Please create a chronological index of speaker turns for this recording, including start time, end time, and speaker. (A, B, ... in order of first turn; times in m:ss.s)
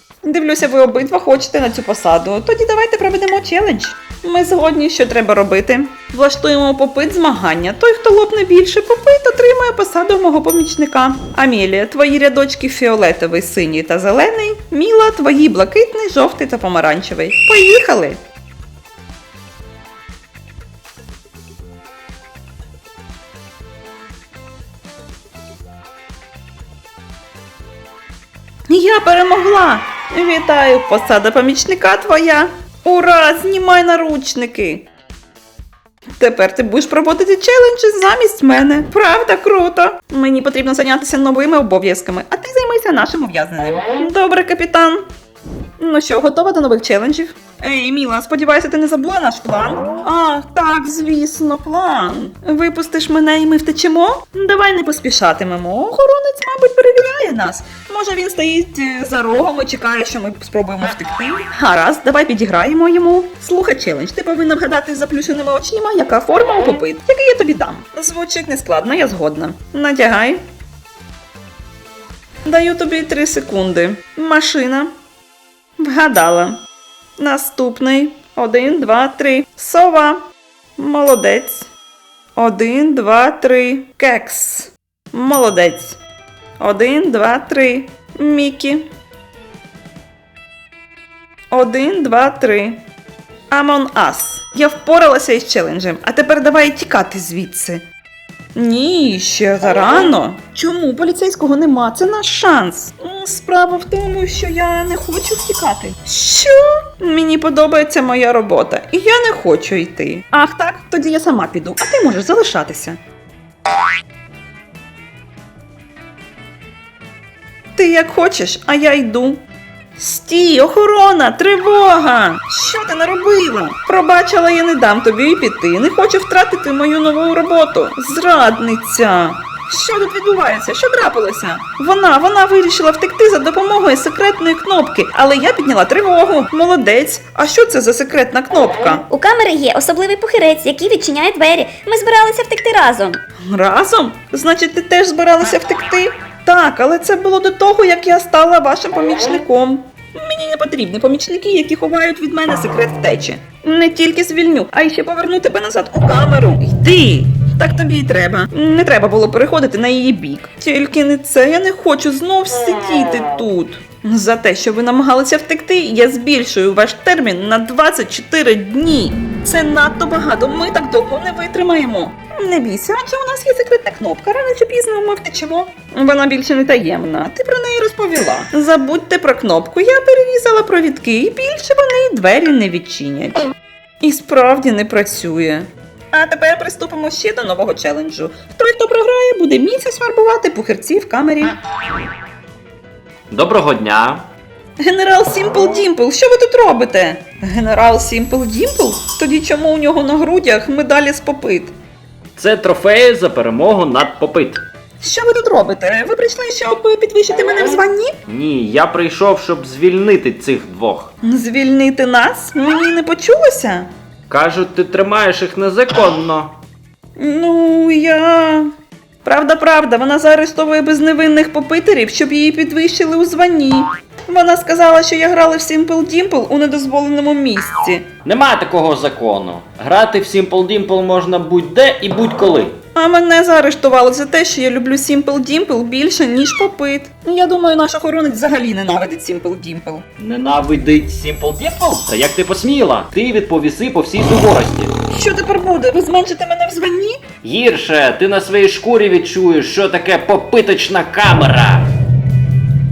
0:00.2-0:18.2 A
0:28.7-0:34.8 A
0:36.2-0:45.0 A
0:45.8-1:10.4 A
1:12.4-1:14.9 A
1:15.8-1:16.6 A
1:17.2-1:20.2 A
1:20.8-1:21.7 A
1:22.4-1:26.0 A
1:26.6-1:28.9 A
1:31.5-1:32.8 A
1:33.5-1:37.8 A
1:38.5-1:53.0 A
1:57.7-1:59.4 A
2:00.0-2:19.1 A
2:19.1-2:23.2 B
2:23.4-3:03.4 A
3:04.0-3:11.6 A
3:13.3-3:14.3 C
3:14.8-3:21.7 A
3:22.4-3:24.6 C
3:25.0-3:28.1 A
3:28.3-3:31.1 C
3:31.2-3:33.9 A
3:34.3-3:36.5 C
3:37.2-3:38.7 A
3:39.2-3:48.1 A
3:48.2-3:52.8 C
3:52.9-4:00.0 A
4:00.2-4:04.9 C
4:05.1-4:07.2 A
4:07.4-4:11.9 C